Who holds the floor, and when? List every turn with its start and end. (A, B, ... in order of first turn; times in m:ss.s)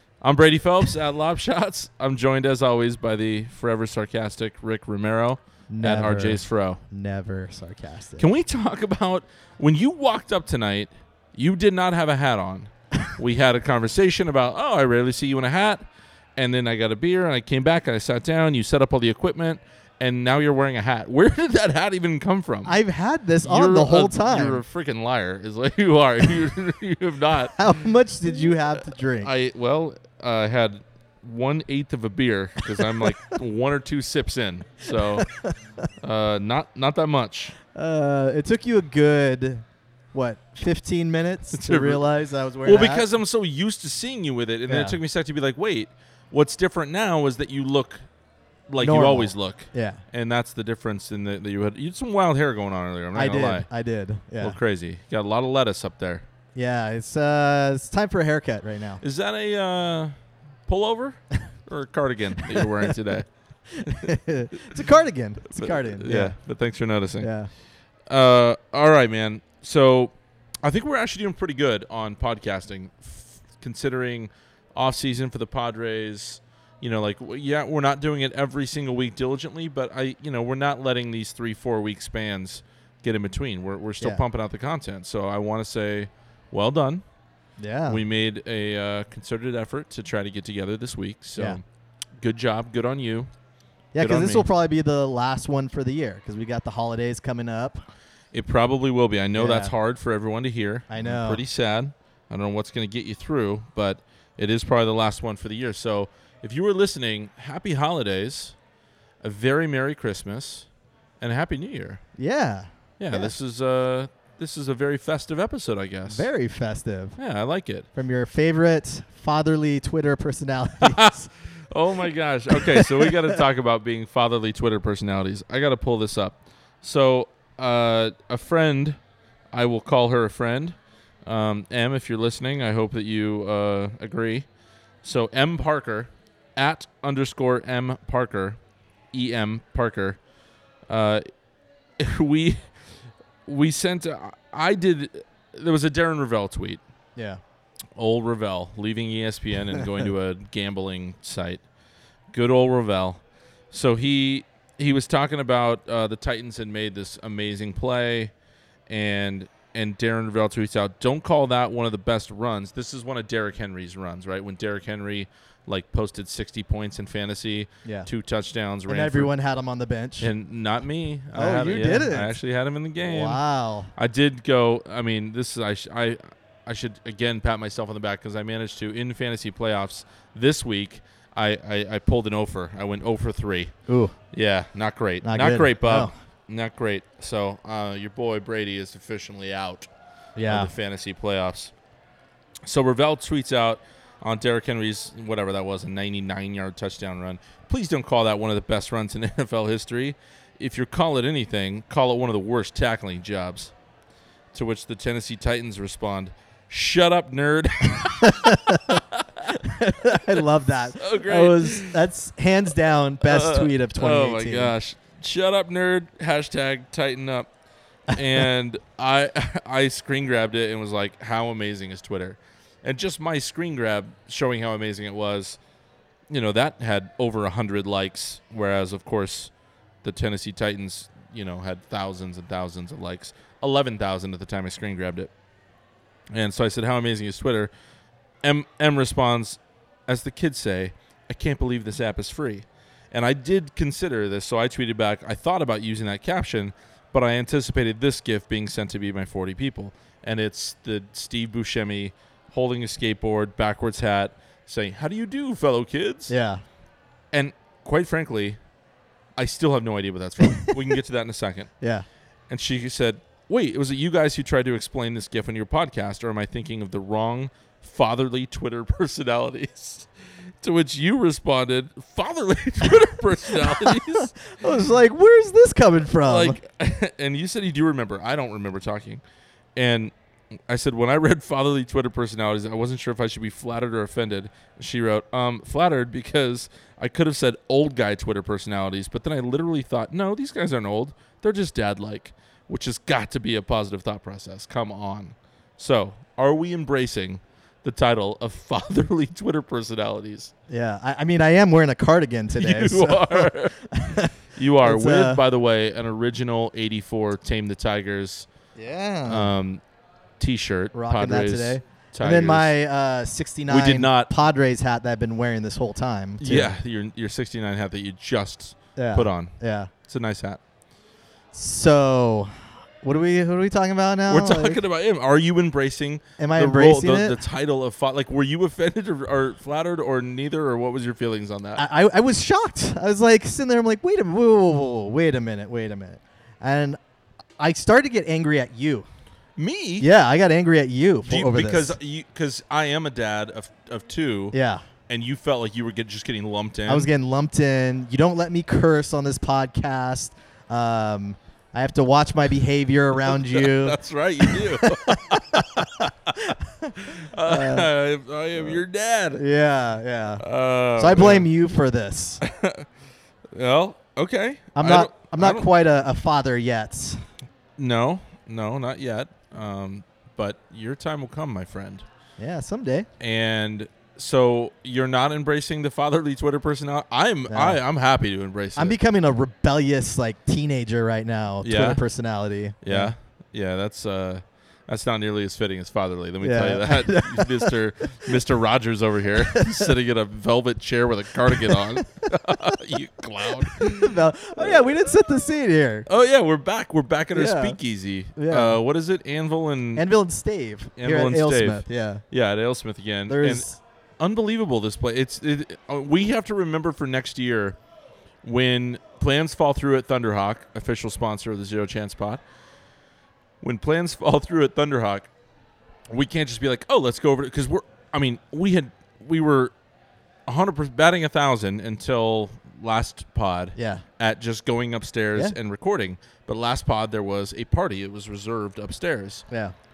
0:00.2-0:06.8 A
0:05.7-0:08.3 B
0:08.2-0:15.8 A
0:16.4-0:22.8 A
0:22.7-0:24.6 B
0:23.4-0:27.6 A
0:27.6-0:29.3 B
0:29.2-0:35.3 A
0:34.8-0:35.5 B
0:36.0-0:37.5 A
0:37.7-0:43.0 B
0:41.5-0:42.0 A
0:42.6-0:48.0 A
0:44.7-0:45.0 B
0:48.7-0:53.7 A
0:48.8-0:50.0 B
0:53.1-0:54.6 B
0:54.4-0:56.2 A
0:56.5-0:59.0 B
0:59.0-1:00.1 A
1:00.7-1:03.3 A
1:02.5-1:02.9 B
1:03.8-1:06.4 B
1:03.8-1:04.8 A
1:05.4-1:07.3 A
1:07.2-1:07.5 B
1:08.1-1:27.0 A
1:27.6-1:28.0 B
1:27.9-1:31.6 A
1:32.2-1:33.3 A
1:33.9-1:37.8 B
1:34.0-1:34.4 A
1:38.3-1:48.6 A
1:39.3-1:39.7 B
1:40.9-1:41.4 B
1:49.2-1:50.7 A
1:51.2-1:52.0 A
1:52.2-1:53.3 B
1:53.0-1:56.3 A
1:56.1-1:57.2 B
1:57.2-1:57.9 A
1:57.9-2:01.3 B
2:00.8-2:09.0 A
2:02.5-2:03.3 B
2:09.5-2:14.5 A
2:15.0-2:18.6 A
2:19.1-2:20.2 A
2:20.9-2:21.3 A
2:22.0-2:22.6 A
2:23.4-2:26.8 A
2:27.2-2:27.4 B
2:28.0-2:31.6 A
2:32.3-2:38.3 A
2:38.9-2:49.3 A
2:48.9-2:50.3 B
2:50.2-2:53.4 A
2:51.3-2:52.3 B
2:53.0-2:53.9 B
2:53.9-3:03.7 A
3:03.9-3:04.1 B
3:04.3-3:09.9 A
3:05.2-3:06.1 B
3:10.4-3:10.7 B
3:10.4-3:11.7 A
3:12.6-3:23.7 A
3:24.5-3:30.4 A
3:28.2-3:29.0 B
3:29.5-3:34.7 B
3:31.0-3:32.0 A
3:33.2-3:37.5 A
3:38.1-3:45.6 A
3:46.3-3:49.5 A
3:50.0-3:55.3 A
3:56.3-3:57.7 A
3:58.4-4:16.3 A
4:16.3-4:16.6 B
4:17.3-4:18.6 A
4:19.4-4:21.7 A
4:21.8-4:22.0 B
4:22.5-4:30.1 A
4:30.6-4:34.3 A
4:33.6-4:36.6 B
4:36.2-4:39.2 A
4:39.8-4:40.1 A
4:40.7-5:00.5 A
5:00.7-5:05.4 B
5:02.6-5:03.9 A
5:04.5-5:08.5 A
5:08.7-5:09.5 B
5:09.2-5:09.8 A
5:10.4-5:12.7 A
5:10.9-5:16.7 B
5:13.7-5:14.3 A
5:16.4-5:20.6 A
5:19.0-5:19.9 B
5:21.5-5:24.8 B
5:24.3-5:31.8 A
5:26.4-5:27.4 B
5:31.8-5:37.0 B
5:37.6-5:39.1 B
5:39.6-5:40.1 A
5:40.0-5:42.0 B
5:41.2-5:44.6 A
5:44.5-5:44.8 B
5:45.1-5:47.1 A
5:46.9-5:57.9 B
5:53.3-5:59.4 A
5:58.6-5:58.8 B
5:59.4-6:00.4 B
6:00.4-6:01.5 A
6:01.0-6:02.4 B
6:02.4-6:02.9 A
6:03.5-6:05.7 A
6:04.7-6:07.2 B
6:07.8-6:12.0 A
6:12.4-6:13.1 B
6:13.2-6:19.0 A
6:17.5-6:17.8 B
6:18.8-6:23.1 B
6:21.6-6:22.0 A
6:22.8-6:34.8 A
6:26.4-6:27.7 B
6:29.4-6:29.9 B
6:31.5-6:31.9 B
6:33.6-6:36.1 B
6:36.1-6:40.1 A
6:37.3-6:37.8 B
6:38.3-6:38.8 B
6:40.0-6:42.2 B
6:41.0-6:47.8 A
6:43.3-6:43.8 B
6:48.4-6:52.4 A
6:53.6-6:55.3 A
6:56.1-6:59.7 A
7:00.5-7:09.4 A
7:03.8-7:04.0 B
7:09.5-7:09.7 B